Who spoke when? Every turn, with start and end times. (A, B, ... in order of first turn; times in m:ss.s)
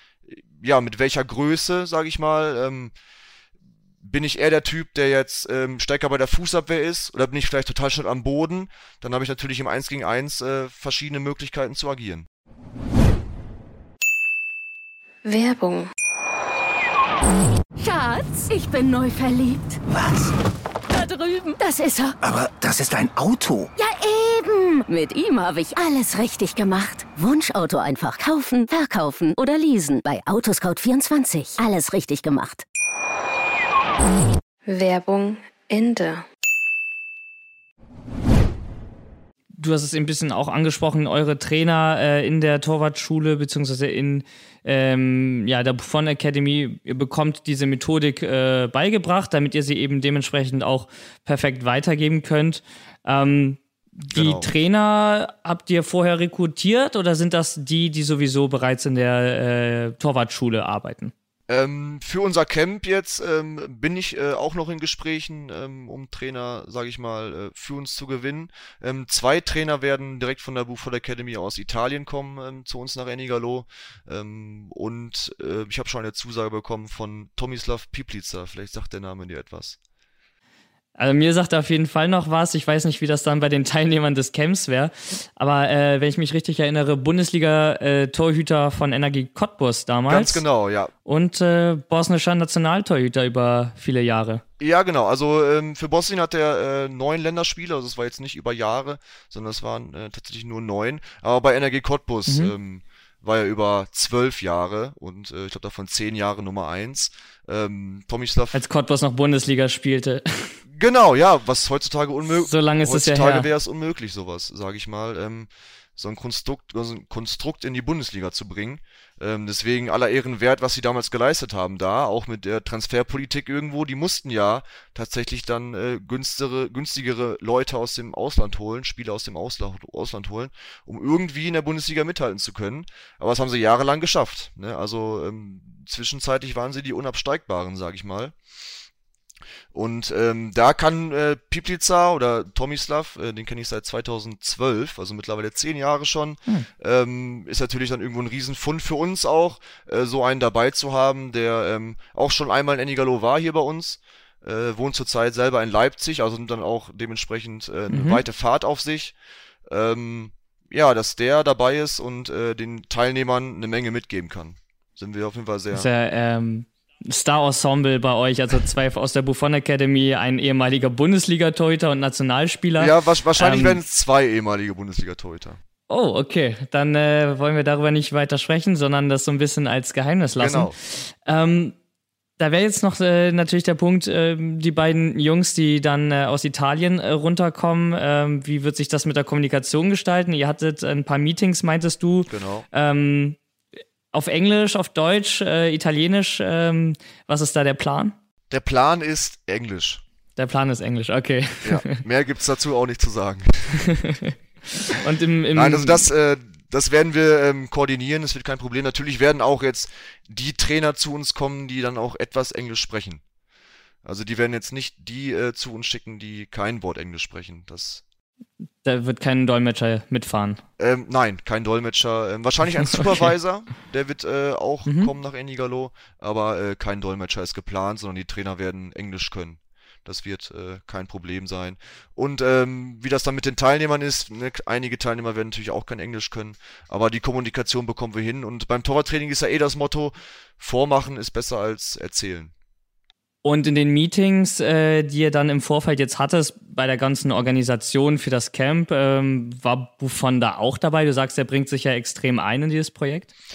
0:00.3-0:02.9 A
0:04.0-0:12.3 A
0:15.2-0:15.9 B
0:17.8-0:19.8 C
0:19.9-0:20.3 D
0:20.9-0:22.2 C
0:22.2-0:23.7 D
0:23.8-0:32.6 C
0:34.7-0:36.2 B
0:39.6-1:01.1 E
0:54.1-0:54.5 A
1:01.5-1:19.8 A
1:21.0-1:30.4 E
1:30.1-1:30.9 A
1:31.0-1:34.4 E
1:34.6-1:48.6 A
1:42.3-1:42.5 E
1:48.5-1:50.6 E
1:50.7-2:18.3 A
1:52.3-1:53.5 E
2:19.7-2:39.1 A
2:37.9-2:38.2 E
2:39.7-2:45.9 A
2:45.7-2:53.8 E
2:52.8-2:55.6 A
2:55.9-3:01.7 E
3:00.4-3:00.7 A
3:02.4-3:13.4 E
3:12.3-3:12.7 A
3:14.1-3:18.1 E
3:18.5-3:20.0 A
3:20.4-3:22.0 E
3:21.6-3:23.8 A
3:23.7-3:26.1 E
3:25.5-3:33.2 A
3:34.0-3:38.0 A
3:38.8-3:40.6 E
3:40.8-4:02.5 A
3:44.8-3:45.1 E
4:03.4-4:13.3 E